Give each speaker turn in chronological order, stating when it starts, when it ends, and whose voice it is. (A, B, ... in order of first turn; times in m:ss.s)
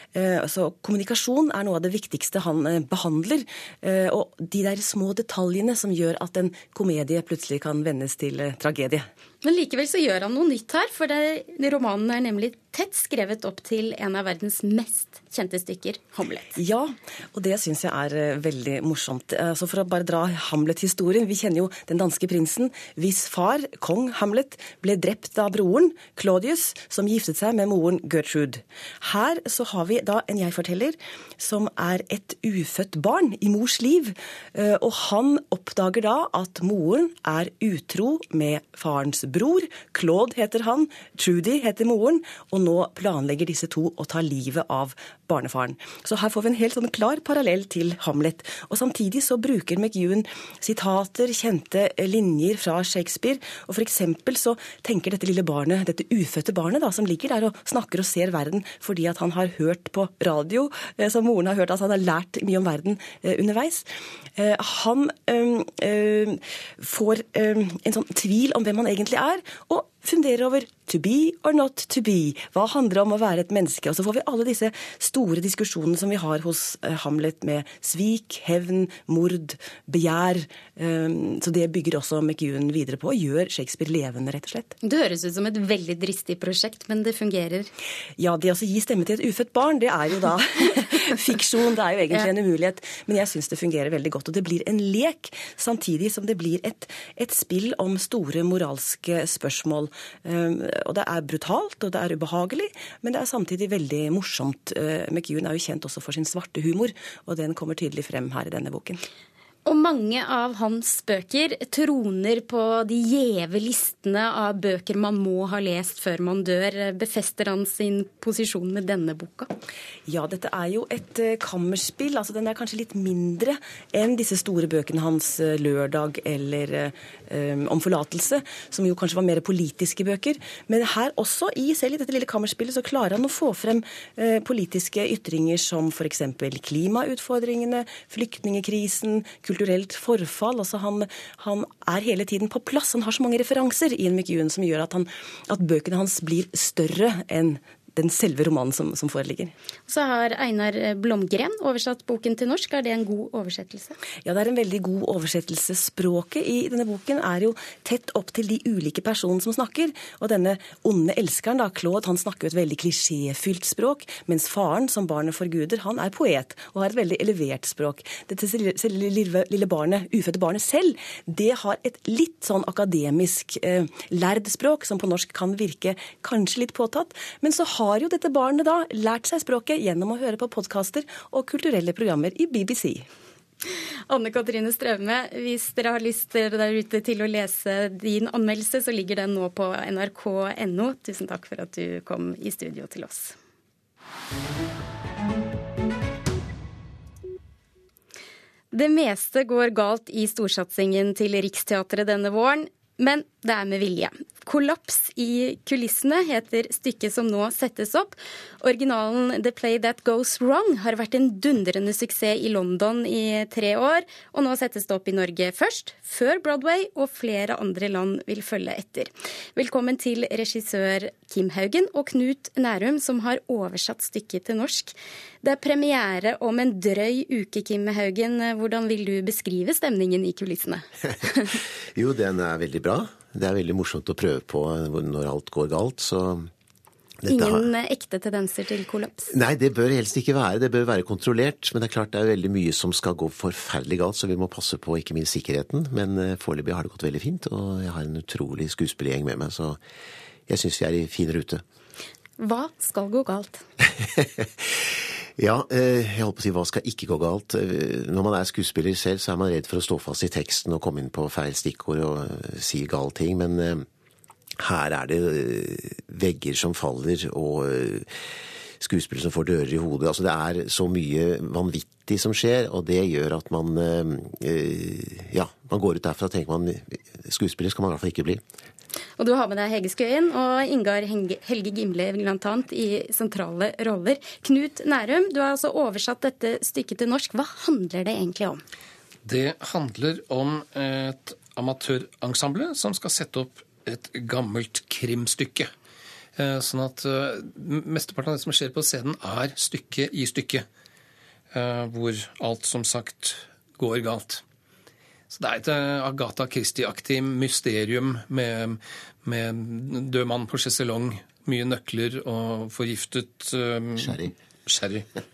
0:00.1-0:09.1 A
0:09.4-0:16.5 B
0:16.6-1:24.7 A
1:24.8-1:27.7 B
1:28.2-1:49.0 A
1:49.6-1:59.5 B
2:00.1-2:29.5 A
2:29.9-2:34.0 B
2:34.2-3:03.1 A
3:04.1-3:13.3 B
3:18.7-3:51.5 B
3:51.9-3:56.5 C
3:57.2-3:57.7 C
3:57.3-3:59.3 B
3:59.3-4:09.8 C
4:10.5-4:11.6 C
4:12.4-4:13.6 B
4:14.2-4:14.6 C
4:15.4-4:23.8 C
4:24.6-4:28.1 C
4:28.8-4:38.4 C
4:39.2-4:48.6 B
4:49.2-4:55.7 D
4:56.4-5:00.6 D
5:01.5-5:04.4 D
5:05.3-5:15.0 D
5:14.0-5:14.3 C